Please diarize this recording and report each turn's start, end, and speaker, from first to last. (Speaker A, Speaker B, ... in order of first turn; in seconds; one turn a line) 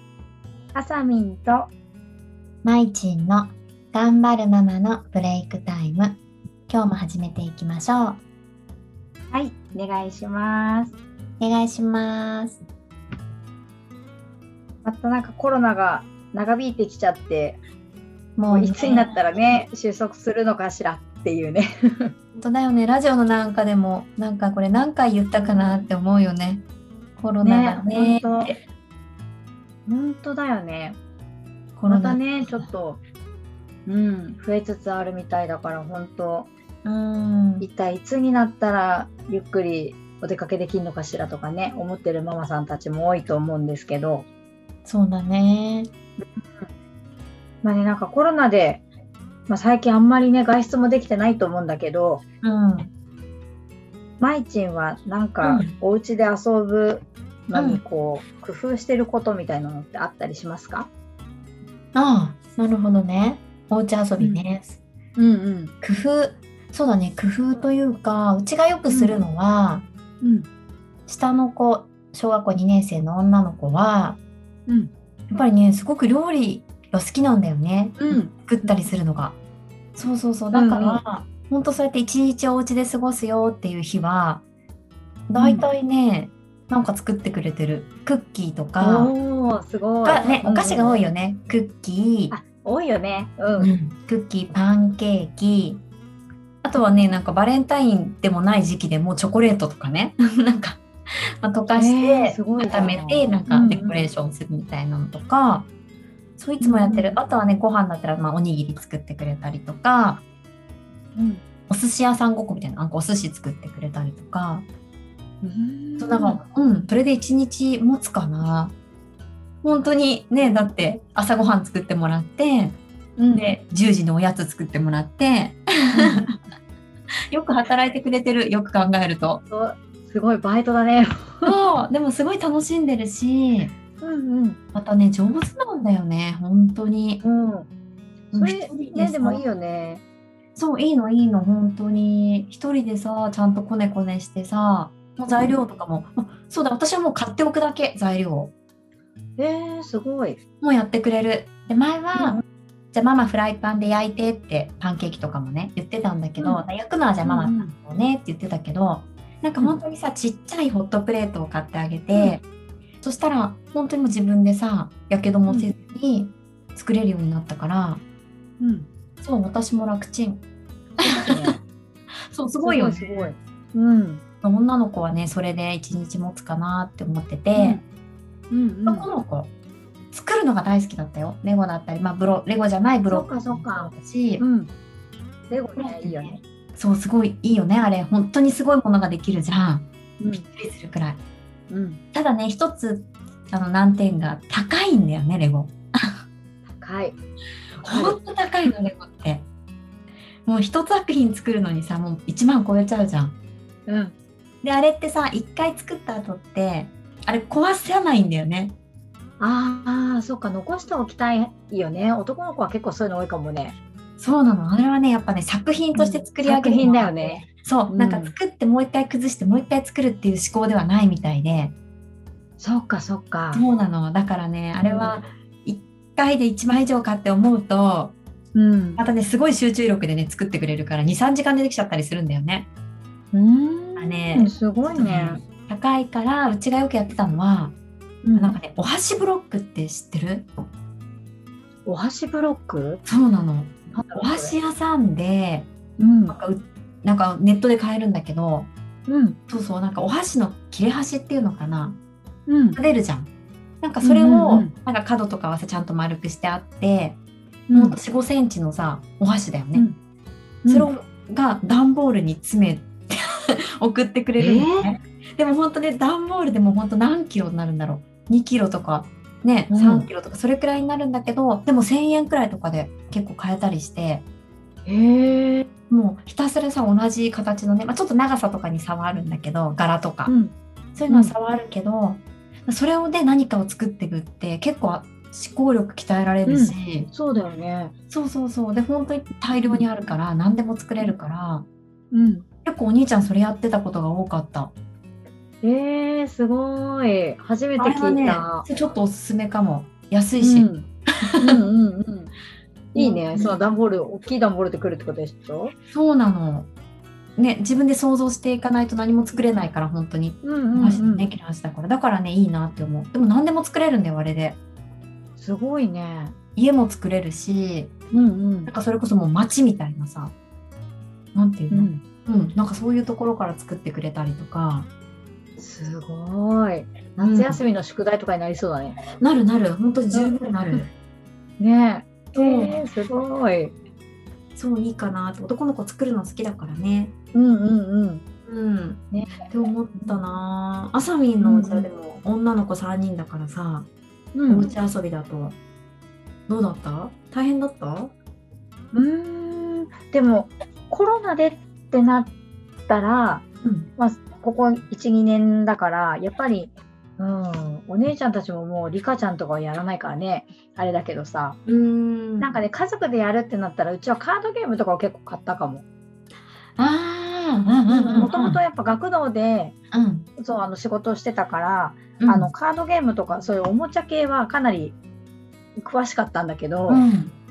Speaker A: 0.7-1.7
Speaker B: 2.6-8.2
Speaker A: 9.3-11.0
Speaker B: 11.4-12.6
Speaker A: 14.8-17.6
Speaker B: 18.4-19.2
Speaker A: 18.5-22.1
Speaker B: 22.4-26.6
Speaker A: 25.3-25.8
Speaker B: 27.2-28.6
Speaker A: 27.4-28.5
Speaker A: 29.9-31.0
Speaker B: 31.8-32.7
Speaker A: 31.9-33.0
Speaker A: 33.9-36.5
Speaker B: 36.8-37.6
Speaker A: 37.6-44.2
Speaker B: 44.8-45.9
Speaker A: 46.2-46.7
Speaker A: 47.6-48.8
Speaker A: 49.5-52.2
Speaker B: 52.4-52.9
Speaker A: 54.2-60.9
Speaker B: 55.4-55.7
Speaker B: 57.5-57.8
Speaker B: 61.9-64.8
Speaker A: 65.2-65.7
Speaker B: 65.8-69.8
Speaker A: 68.9-69.2
Speaker A: 70.2-70.5
Speaker B: 71.1-74.2
Speaker A: 74.7-74.9
Speaker B: 75.3-79.4
Speaker A: 78.0-78.8
Speaker B: 80.0-84.4
Speaker A: 80.5-81.0
Speaker B: 85.3-89.1
Speaker A: 85.4-85.7
Speaker A: 88.8-91.0
Speaker B: 90.0-92.4
Speaker A: 92.3-93.7
Speaker B: 93.6-95.8
Speaker B: 96.6-100.8
Speaker B: 101.4-105.7
Speaker A: 101.7-104.0
Speaker B: 106.4-110.2
Speaker A: 106.6-107.2
Speaker A: 111.1-111.4
Speaker B: 111.7-114.7
Speaker A: 115.4-116.4
Speaker B: 116.0-118.7
Speaker B: 119.6-122.8
Speaker A: 123.2-123.5
Speaker B: 123.3-126.3
Speaker A: 125.9-126.3
Speaker B: 127.3-129.4
Speaker A: 129.5-131.6
Speaker B: 131.4-133.7
Speaker A: 134.0-134.6
Speaker B: 134.7-137.2
Speaker A: 137.2-137.7
Speaker A: 138.3-140.0
Speaker B: 138.3-139.4
Speaker B: 140.6-148.5
Speaker A: 149.4-150.4
Speaker B: 150.6-152.4
Speaker A: 152.1-152.4
Speaker B: 152.9-162.4
Speaker A: 156.4-156.6
Speaker A: 157.2-157.7
Speaker A: 162.1-162.4
Speaker B: 163.0-168.0
Speaker A: 168.6-168.9
Speaker B: 169.2-170.4
Speaker A: 171.0-171.6
Speaker B: 171.0-171.6
Speaker B: 172.3-173.3
Speaker A: 172.6-174.2
Speaker B: 174.4-177.8
Speaker A: 177.5-177.8
Speaker A: 178.5-179.1
Speaker B: 178.9-179.5
Speaker B: 180.1-184.4
Speaker A: 183.1-184.7
Speaker A: 185.5-186.4
Speaker B: 185.8-189.9
Speaker A: 190.2-190.4
Speaker B: 190.5-191.2
Speaker A: 191.7-192.0
Speaker B: 192.1-196.2
Speaker A: 196.8-197.2
Speaker A: 197.8-198.7
Speaker B: 197.8-199.5
Speaker B: 200.4-203.4
Speaker A: 203.9-204.2
Speaker B: 204.6-208.8
Speaker A: 209.4-213.8
Speaker B: 214.2-221.7
Speaker A: 215.9-218.3
Speaker A: 222.6-223.6
Speaker B: 223.5-228.2
Speaker A: 224.8-225.2
Speaker A: 228.5-229.0
Speaker B: 229.0-232.7
Speaker A: 233.3-235.4
Speaker B: 234.0-237.8
Speaker A: 238.2-238.6
Speaker B: 238.3-240.5
Speaker A: 241.8-243.0
Speaker B: 243.0-245.7
Speaker A: 243.9-244.6
Speaker A: 246.0-246.3
Speaker B: 246.3-248.7
Speaker A: 249.1-249.4
Speaker B: 249.5-252.0
Speaker A: 252.5-252.8
Speaker B: 252.7-253.3
Speaker B: 253.8-257.2
Speaker A: 254.0-254.7
Speaker A: 257.7-258.0
Speaker B: 257.7-259.9
Speaker A: 260.6-260.9
Speaker B: 260.7-274.2
Speaker A: 264.4-264.9
Speaker A: 269.7-270.1
Speaker A: 274.9-275.7
Speaker B: 275.9-280.3
Speaker A: 280.2-280.5
Speaker B: 280.9-287.1
Speaker A: 281.1-281.3
Speaker A: 286.4-287.9
Speaker B: 288.1-291.6
Speaker A: 289.6-289.9
Speaker A: 292.1-292.4
Speaker B: 292.6-294.7
Speaker A: 295.6-298.6
Speaker B: 297.8-300.7
Speaker A: 300.4-302.3
Speaker B: 302.9-303.6
Speaker A: 302.9-305.7
Speaker B: 305.9-306.7
Speaker B: 307.4-314.6
Speaker A: 310.4-311.3
Speaker A: 315.4-316.3
Speaker B: 316.6-317.9
Speaker A: 318.1-318.7
Speaker B: 318.6-320.3
Speaker B: 321.3-324.9
Speaker A: 321.7-322.0
Speaker A: 325.6-329.0
Speaker B: 327.2-327.6
Speaker B: 329.2-330.9
Speaker A: 330.1-330.9
Speaker A: 331.6-333.7
Speaker B: 332.3-332.8
Speaker B: 334.5-337.1
Speaker A: 337.3-338.2
Speaker B: 338.5-343.9
Speaker A: 339.1-339.4
Speaker A: 341.4-341.9
Speaker A: 344.3-344.7
Speaker B: 344.5-345.6
Speaker B: 346.5-348.1
Speaker A: 348.9-352.3
Speaker A: 352.9-361.6
Speaker B: 353.6-353.9
Speaker B: 361.6-362.6
Speaker A: 362.4-365.8
Speaker B: 366.8-368.6
Speaker A: 367.9-369.8
Speaker B: 369.9-370.3
Speaker A: 370.4-375.0
Speaker B: 372.2-372.5
Speaker A: 375.8-377.0
Speaker B: 376.9-377.3